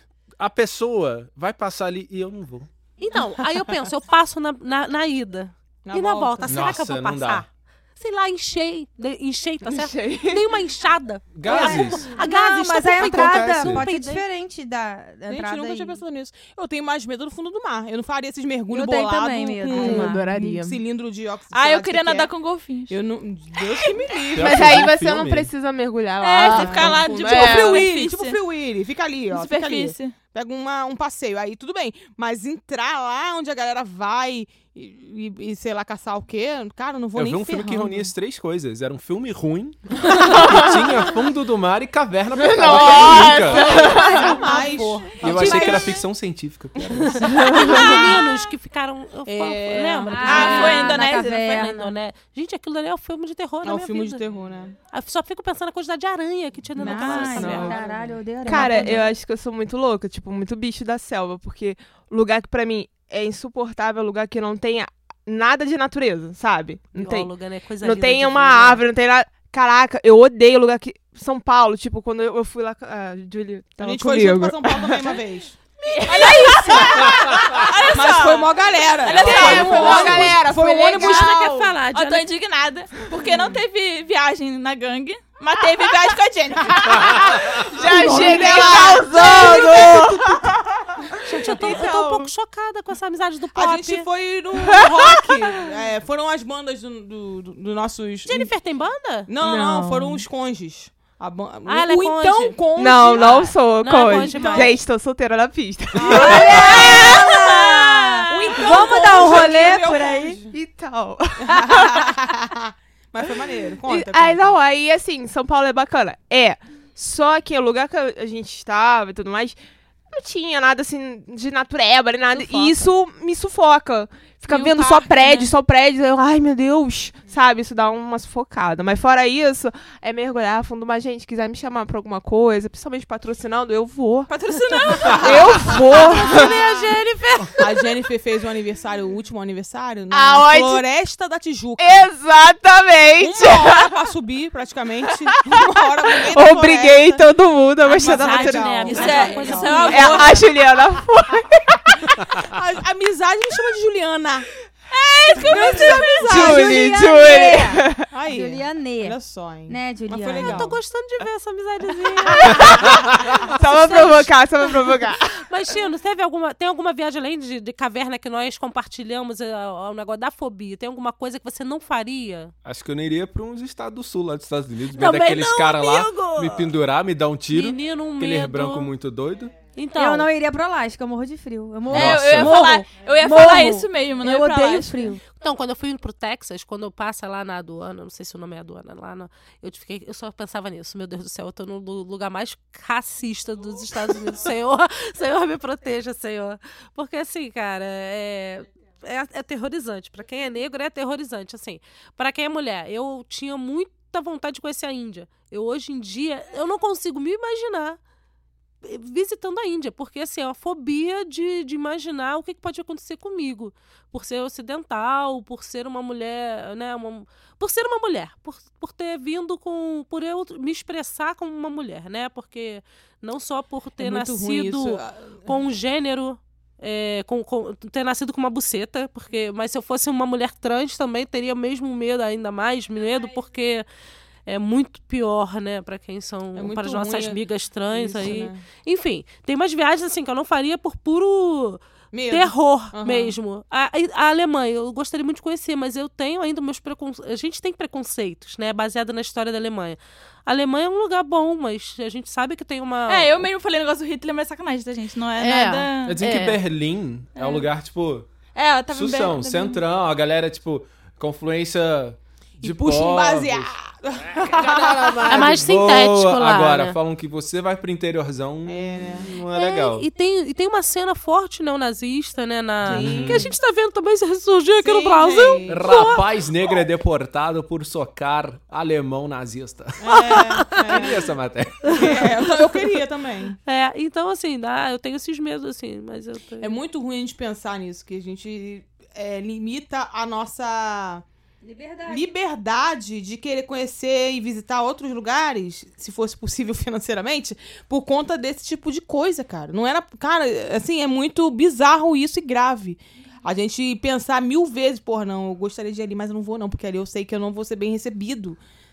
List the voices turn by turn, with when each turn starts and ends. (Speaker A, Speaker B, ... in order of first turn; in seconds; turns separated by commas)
Speaker A: 0.4-2.7, Speaker B: 3.0-14.2, Speaker C: 5.8-6.7, Speaker A: 6.5-7.5, Speaker D: 9.6-10.5, Speaker A: 11.3-12.1, Speaker E: 11.4-16.0, Speaker A: 12.9-13.8, Speaker C: 15.3-22.3, Speaker E: 18.7-20.5, Speaker D: 19.7-20.8, Speaker F: 21.5-23.0, Speaker C: 22.9-24.9, Speaker A: 24.3-25.5, Speaker D: 24.4-27.9, Speaker F: 26.2-28.4, Speaker C: 26.4-38.1, Speaker F: 29.3-30.2, Speaker A: 37.2-43.8, Speaker D: 40.2-41.0, Speaker D: 42.4-44.4, Speaker B: 42.7-46.0, Speaker C: 43.7-45.7, Speaker E: 43.9-46.0, Speaker A: 45.2-47.4, Speaker B: 47.1-54.2, Speaker D: 47.5-48.0, Speaker C: 47.6-48.0, Speaker C: 49.3-50.8, Speaker E: 50.1-51.9, Speaker F: 50.2-51.7, Speaker C: 53.6-54.8, Speaker B: 54.9-57.8, Speaker E: 56.8-59.1, Speaker C: 56.8-58.9, Speaker F: 57.3-57.7, Speaker D: 58.5-75.2, Speaker B: 67.0-68.8, Speaker C: 73.8-75.6, Speaker B: 75.8-76.4, Speaker F: 75.9-80.3, Speaker D: 76.2-77.2, Speaker C: 76.3-77.1, Speaker C: 77.9-81.4, Speaker D: 79.1-81.7, Speaker B: 79.2-80.4, Speaker B: 81.0-82.2, Speaker F: 81.9-87.4, Speaker C: 83.1-83.6, Speaker D: 87.2-90.7, Speaker C: 87.7-90.2, Speaker B: 87.8-88.6, Speaker B: 91.2-94.1, Speaker D: 91.3-92.3, Speaker C: 93.5-98.5, Speaker D: 94.6-95.4, Speaker B: 98.3-99.3, Speaker C: 99.3-103.6, Speaker D: 99.4-100.2, Speaker B: 101.7-102.6, Speaker D: 102.8-107.6, Speaker B: 103.2-104.8, Speaker C: 104.3-104.8, Speaker C: 106.0-107.1, Speaker E: 106.1-110.4, Speaker C: 108.3-110.5, Speaker D: 108.8-109.7, Speaker D: 110.5-112.1, Speaker C: 111.5-114.6, Speaker D: 113.8-134.3, Speaker C: 122.3-122.9, Speaker F: 124.5-125.5, Speaker F: 134.3-135.8, Speaker D: 135.0-136.6, Speaker B: 135.7-137.7, Speaker C: 137.6-142.1, Speaker D: 140.1-140.8, Speaker D: 141.8-144.0, Speaker C: 143.2-147.2, Speaker D: 145.3-149.3, Speaker B: 147.8-150.4, Speaker C: 147.9-150.4, Speaker F: 148.9-150.4, Speaker D: 149.9-152.2, Speaker C: 152.4-154.5, Speaker F: 154.9-156.6, Speaker E: 155.4-160.7, Speaker C: 155.5-156.8, Speaker D: 156.2-158.1, Speaker C: 158.1-160.8, Speaker B: 160.4-163.0, Speaker D: 162.6-162.9, Speaker D: 163.4-165.4, Speaker B: 163.6-172.5, Speaker A: 172.6-179.5, Speaker B: 174.9-176.7, Speaker B: 177.5-178.9, Speaker B: 179.8-180.3, Speaker E: 179.9-185.2, Speaker A: 181.9-182.6, Speaker F: 181.9-185.0, Speaker B: 185.3-208.0, Speaker B: 208.8-233.9, Speaker C: 224.0-225.5, Speaker B: 234.5-253.5, Speaker C: 236.6-238.6, Speaker C: 242.1-243.3, Speaker F: 253.1-256.2, Speaker B: 255.4-256.6, Speaker A: 256.1-258.3, Speaker F: 257.4-257.7, Speaker F: 258.6-259.8, Speaker A: 258.9-263.7, Speaker C: 262.6-265.6, Speaker A: 264.3-270.1, Speaker B: 265.3-267.0, Speaker C: 268.7-269.3, Speaker B: 269.5-276.2, Speaker A: 272.9-273.5, Speaker C: 272.9-273.5, Speaker C: 274.8-276.0, Speaker A: 275.7-282.4, Speaker C: 280.0-281.3, Speaker C: 281.9-283.6, Speaker B: 283.7-286.8, Speaker C: 286.6-291.2, Speaker E: 291.6-292.3, Speaker C: 292.1-308.6